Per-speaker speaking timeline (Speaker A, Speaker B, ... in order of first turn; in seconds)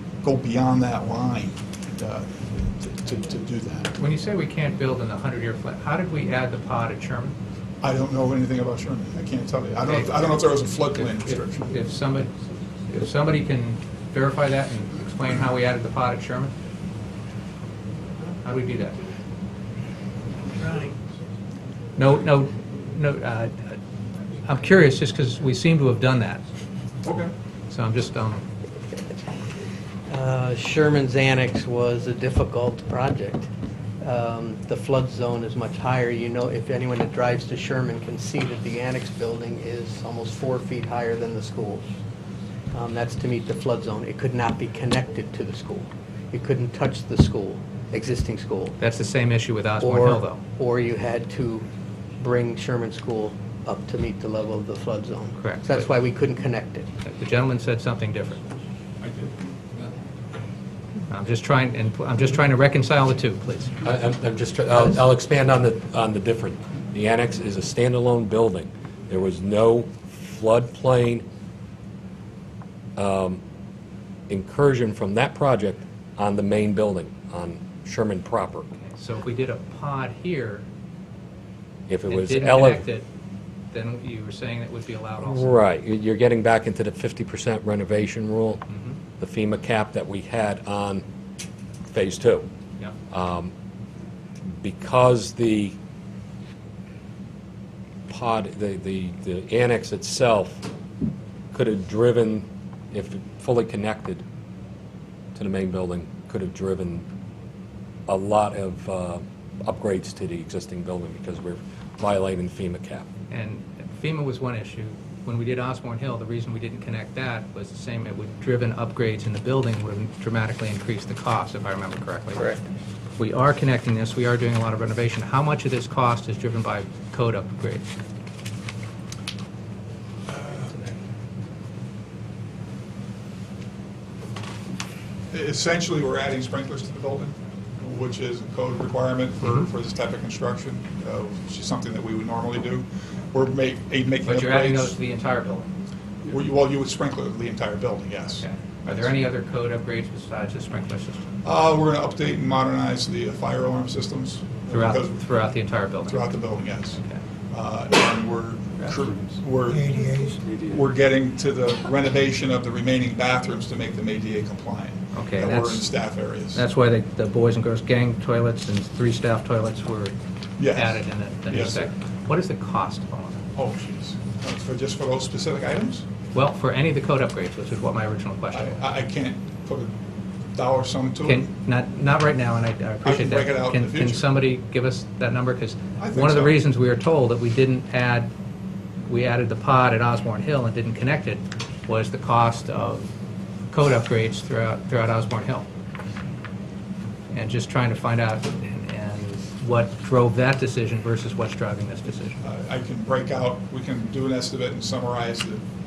Speaker A: 0.2-3.9, 7.8-11.7, 27.0-27.3, 59.0-59.3, 130.3-130.7, 135.3-144.9, 146.3-149.2, 151.4-155.2, 156.0-166.6, 170.6-171.9, 173.5-176.1, 178.5-179.9, 180.5-181.4, 183.0-184.2, 186.0-186.6, 202.4-205.6
Speaker B: 4.0-7.3, 9.8-12.3, 12.9-16.5, 18.4-19.0, 22.0-23.8, 24.4-26.4, 27.7-28.4, 48.8-50.4, 55.3-56.0, 57.0-58.4, 61.1-63.7, 79.0-80.6, 82.1-83.0, 83.7-85.6, 88.7-89.0, 113.3-122.6, 123.2-127.8, 144.2-145.7, 148.4-151.2, 154.7-156.3, 165.1-170.1, 170.7-173.4, 176.3-178.8, 181.2-188.3, 189.1-193.1, 193.7-195.7, 197.3-202.4
Speaker C: 20.6-20.9, 30.1-33.5, 34.0-41.9, 42.7-48.8, 49.8-56.9
Speaker D: 63.8-71.2, 73.0-73.4, 74.3-78.7, 81.9-82.9, 85.2-88.6, 89.2-91.0, 91.9-92.5, 93.1-93.5, 94.5-95.8, 98.1-100.7, 101.5-104.2, 105.3-107.0, 108.1-113.1